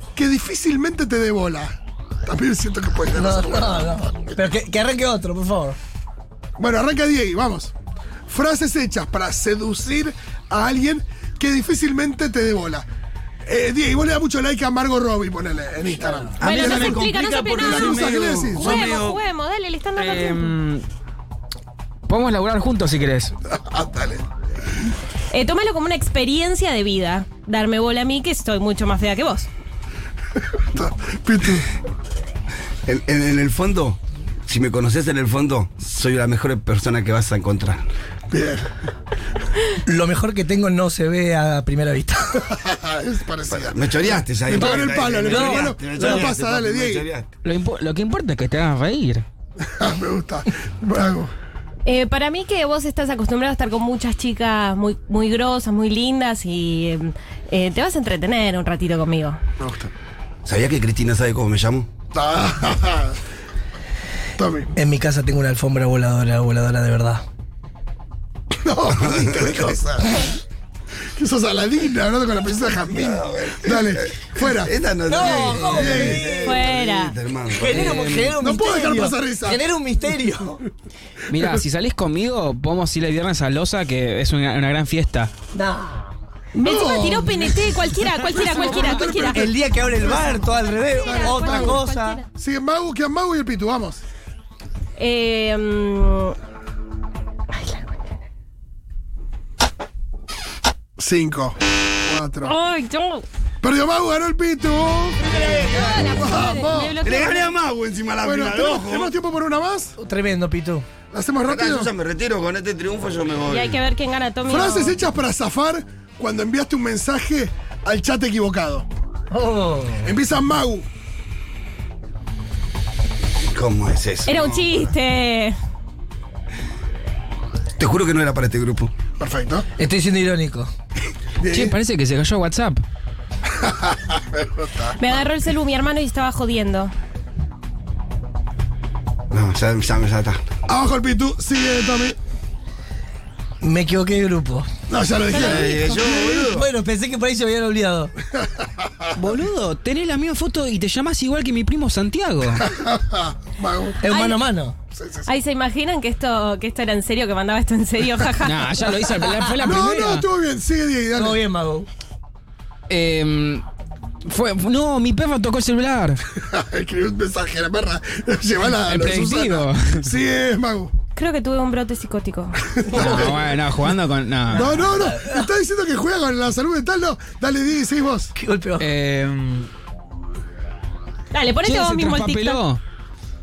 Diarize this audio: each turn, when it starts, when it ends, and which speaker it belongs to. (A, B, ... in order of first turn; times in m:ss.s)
0:00.2-0:03.9 A
0:03.1-0:05.8 B
0:06.6-0:07.7 A
0:08.3-0:12.9 A
0:13.5-0:18.9 A
0:16.4-0:19.2 C
0:16.4-0:20.5 D
0:20.0-0:20.9 E
0:22.1-0:23.3 E
0:23.5-0:24.2 A
0:25.3-0:29.5 D
0:30.7-0:31.6 A
0:32.9-0:37.8 C
0:38.3-0:38.6 A
0:39.9-0:42.4 B
0:42.5-0:47.1 A
0:43.5-0:47.3 C
0:44.5-0:46.3 B
0:47.4-0:49.2 E
0:49.6-0:51.3 A
0:51.8-0:59.4 D
0:59.6-0:59.9 A
1:00.4-1:01.9 C
1:02.1-1:03.2 A
1:04.4-1:04.7 A
1:04.8-1:07.2 B
1:08.6-1:10.3 A
1:09.0-1:09.7 C
1:11.2-1:14.7 A
1:12.9-1:18.4 C
1:15.1-1:16.6 B
1:15.3-1:16.3 A
1:16.4-1:17.2 D
1:17.5-1:20.6 B
1:17.7-1:18.0 E
1:18.4-1:19.6 A
1:21.3-1:25.3 E
1:25.5-1:26.1 B
1:26.5-1:29.5 D
1:26.6-1:27.7 A
1:28.3-1:31.8 A
1:29.3-1:32.2 B
1:30.0-1:32.2 D
1:32.4-1:34.0 A
1:35.0-1:36.4 D
1:37.5-1:37.9 D
1:41.0-1:42.6 A
1:42.4-1:43.3 D
1:43.6-1:45.2 A
1:45.2-1:46.2 C
1:45.4-1:47.5 D
1:46.1-1:47.0 A
1:47.0-1:49.2 C
1:48.2-1:50.0 A
1:50.0-1:50.9 B
1:51.1-1:51.9 A
1:51.4-1:53.8 C
1:53.5-1:55.0 D
1:54.5-1:58.9 A
1:59.3-2:00.2 B
2:00.0-2:00.9 A
2:03.5-2:04.8 C
2:04.3-2:05.6 D
2:07.8-2:08.9 C
2:09.2-2:09.7 A
2:09.8-2:10.7 B
2:11.4-2:11.8 A
2:11.5-2:12.8 E
2:13.6-2:15.2 A
2:15.0-2:16.9 D
2:19.3-2:20.4 C
2:20.7-2:22.2 A
2:23.6-2:24.7 B
2:24.9-2:26.4 A
2:25.3-2:26.0 D
2:25.4-2:26.7 C
2:26.3-2:28.1 B
2:29.2-2:32.6 E
2:32.6-2:34.0 A
2:34.0-2:34.8 B
2:34.0-2:34.4 D
2:34.9-2:35.3 A
2:35.3-2:38.7 D
2:38.4-2:40.3 E
2:39.6-2:40.1 B
2:39.6-2:41.4 A
2:41.2-2:41.9 B
2:42.9-2:43.6 E
2:44.2-2:46.2 E
2:46.4-2:50.9 A
2:48.8-2:50.1 E
2:51.2-2:53.3 D
2:52.8-2:53.6 A
2:52.9-2:54.8 E
2:54.5-2:58.3 A
2:54.6-2:55.5 B
2:58.4-2:58.9 B
2:58.8-2:59.7 E
3:01.3-3:02.6 D
3:01.6-3:02.8 E